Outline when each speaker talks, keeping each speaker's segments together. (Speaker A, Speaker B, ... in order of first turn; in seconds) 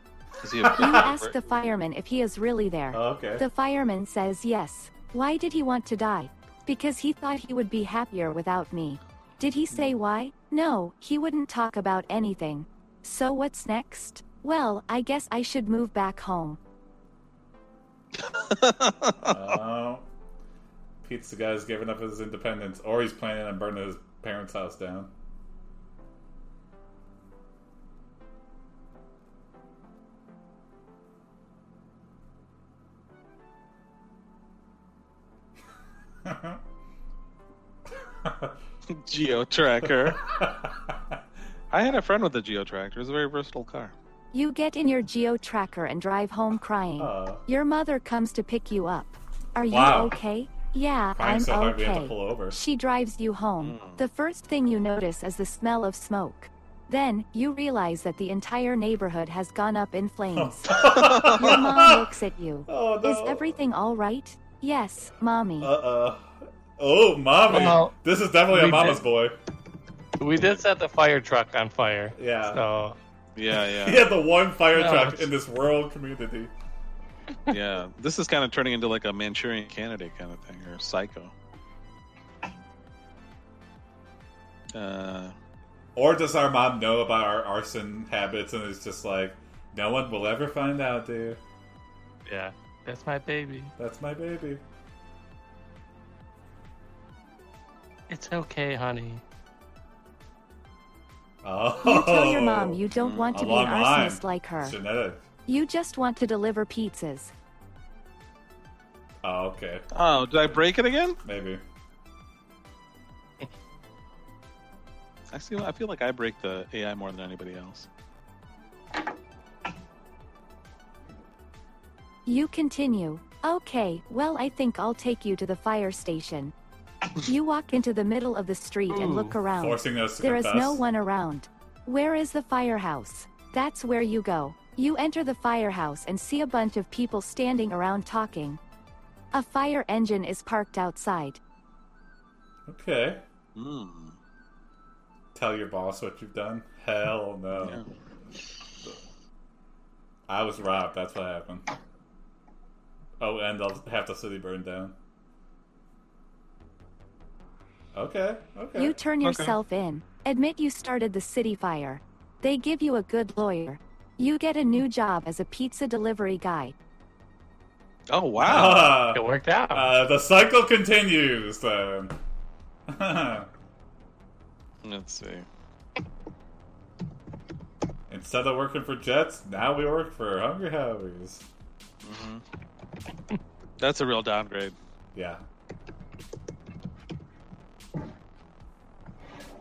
Speaker A: 0.4-1.3, 18.2-19.5, 38.9-40.2, 41.7-43.9, 53.6-54.0, 60.7-61.6, 73.3-74.1, 77.5-81.3, 84.7-85.3, 103.0-103.4, 109.9-111.2, 115.3-117.9, 143.6-144.2, 159.2-159.6, 168.1-168.9, 174.8-175.5, 182.0-182.4, 183.8-184.7
Speaker B: 0.6-1.1, 2.9-3.4, 19.3-20.1, 21.0-25.1, 36.2-36.6, 38.2-38.5, 39.8-41.2, 47.0-47.4, 49.7-50.1, 51.2-52.6, 60.3-62.1, 62.7-63.5, 65.6-69.3, 72.2-72.6, 73.6-76.5, 86.0-91.4, 93.8-94.6, 101.4-102.8, 103.3-105.2, 109.2-109.9, 111.2-111.6, 129.5-130.8, 142.7-143.2, 145.3-147.8, 150.3-151.7, 153.2-154.9, 157.9-158.9, 168.4-172.2, 172.9-173.5, 178.1-181.4, 185.1-185.4
Speaker C: 0.7-16.6, 44.3-65.7, 101.8-104.8, 105.5-107.3, 122.2-126.5, 127.2-138.6, 139.3-141.4, 158.8-166.7
Speaker D: 67.5-67.9, 68.5-69.0, 70.2-73.0, 74.7-75.3, 92.2-93.7, 98.1-99.2, 128.9-129.3, 169.1-169.9